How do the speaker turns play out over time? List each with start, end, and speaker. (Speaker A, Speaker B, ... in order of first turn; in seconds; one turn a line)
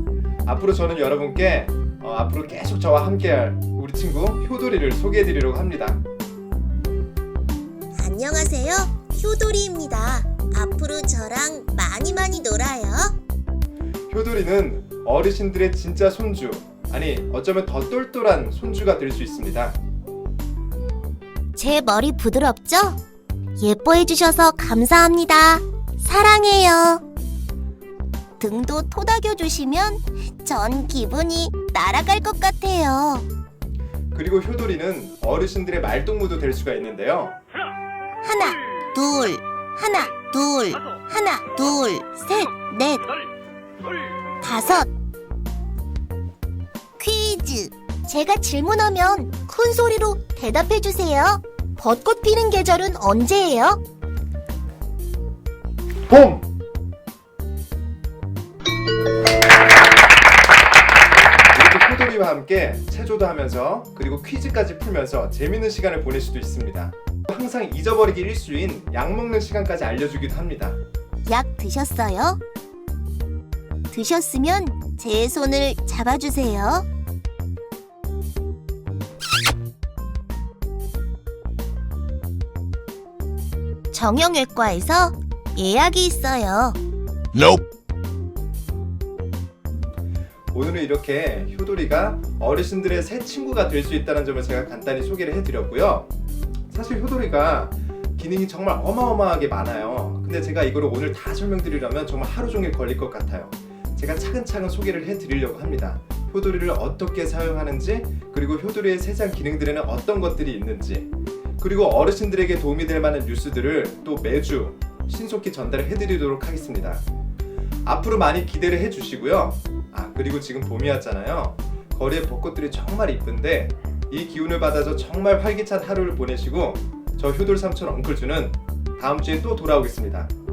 Speaker A: 0.5-6.0
Speaker B: 7.9-13.2
Speaker A: 14.1-19.8
Speaker B: 21.6-23.0
Speaker B: 23.6-27.0
Speaker B: 28.4-33.3
Speaker A: 34.1-37.4
Speaker B: 38.2-43.1
Speaker B: 44.4-44.9
Speaker B: 47.0-53.8
Speaker A: 56.1-56.5
Speaker A: 61.5-70.8
Speaker B: 71.2-72.4
Speaker B: 73.9-76.9
Speaker B: 83.9-86.8
Speaker A: 90.5-96.1
Speaker A: 96.7-117.0
Speaker A: 117.8-130.3